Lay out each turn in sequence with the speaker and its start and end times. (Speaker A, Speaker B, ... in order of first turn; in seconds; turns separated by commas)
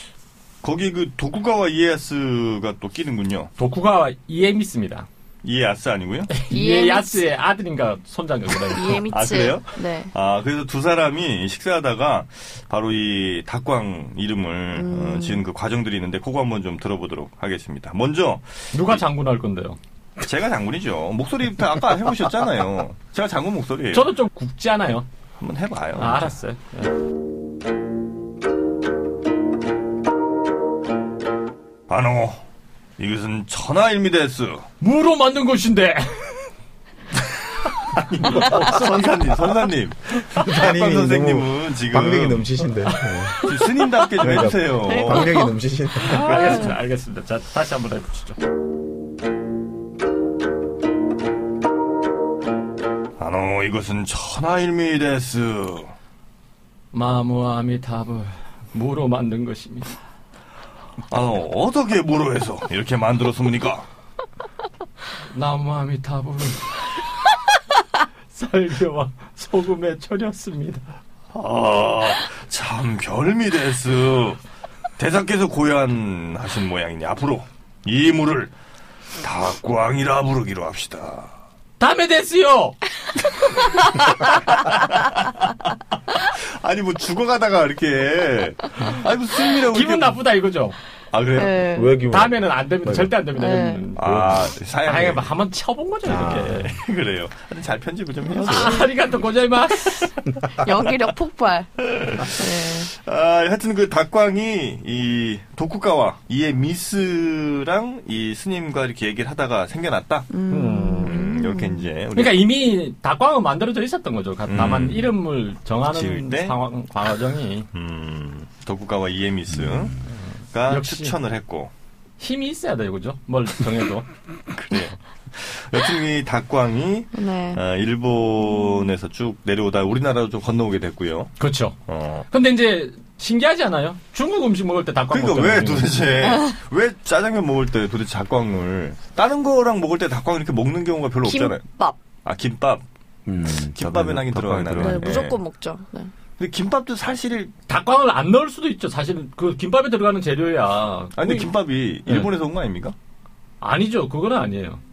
Speaker A: 0.6-3.5, Speaker B: 3.6-5.1, Speaker A: 5.4-6.3, Speaker B: 6.3-9.0, Speaker C: 6.5-7.3, Speaker C: 8.7-10.1, Speaker A: 8.9-19.0, Speaker C: 14.7-15.4, Speaker B: 18.7-19.8, Speaker A: 20.2-24.1, Speaker B: 23.9-25.1, Speaker A: 25.4-26.4, Speaker B: 26.0-26.9, Speaker A: 31.9-32.4, Speaker A: 33.0-34.7, Speaker B: 34.8-36.5, Speaker A: 38.1-42.5, Speaker B: 38.2-39.3, Speaker D: 38.2-38.5, Speaker D: 40.3-43.4, Speaker B: 42.9-43.6, Speaker A: 43.4-45.5, Speaker D: 44.2-46.4, Speaker C: 44.7-45.5, Speaker B: 46.0-48.4, Speaker C: 46.3-46.6, Speaker A: 53.2-55.9, Speaker B: 56.9-59.9, Speaker A: 61.1-63.9, Speaker B: 65.3-66.8, Speaker B: 68.3-70.8, Speaker A: 71.3-74.4, Speaker A: 75.0-78.5, Speaker A: 79.2-81.3, Speaker B: 81.8-82.8, Speaker A: 83.8-85.5, Speaker A: 86.2-90.2, Speaker B: 89.7-90.8, Speaker A: 91.1-91.7, Speaker C: 91.4-92.0, Speaker D: 91.7-93.2, Speaker B: 92.1-94.0, Speaker C: 93.3-93.9, Speaker A: 94.0-95.3, Speaker D: 94.0-94.5, Speaker B: 94.9-96.8, Speaker D: 96.0-96.7, Speaker A: 96.1-98.9, Speaker C: 98.3-98.9, Speaker B: 98.4-100.1, Speaker C: 100.5-102.9, Speaker A: 101.9-110.3, Speaker C: 110.3-111.9, Speaker B: 110.5-111.3, Speaker A: 111.0-112.4, Speaker B: 112.2-117.7, Speaker A: 114.5-115.1, Speaker A: 115.9-116.6, Speaker A: 117.7-121.7, Speaker B: 120.1-121.2, Speaker B: 122.2-124.1, Speaker A: 124.5-132.3, Speaker C: 127.2-127.6, Speaker B: 131.4-131.8, Speaker B: 132.3-136.2, Speaker A: 135.1-141.6, Speaker C: 136.2-136.6, Speaker C: 141.2-142.0, Speaker A: 142.2-142.8, Speaker D: 143.3-145.3, Speaker A: 143.5-145.4, Speaker C: 144.8-146.1, Speaker A: 146.4-147.5, Speaker B: 147.7-151.5, Speaker A: 151.2-152.9, Speaker B: 153.6-154.8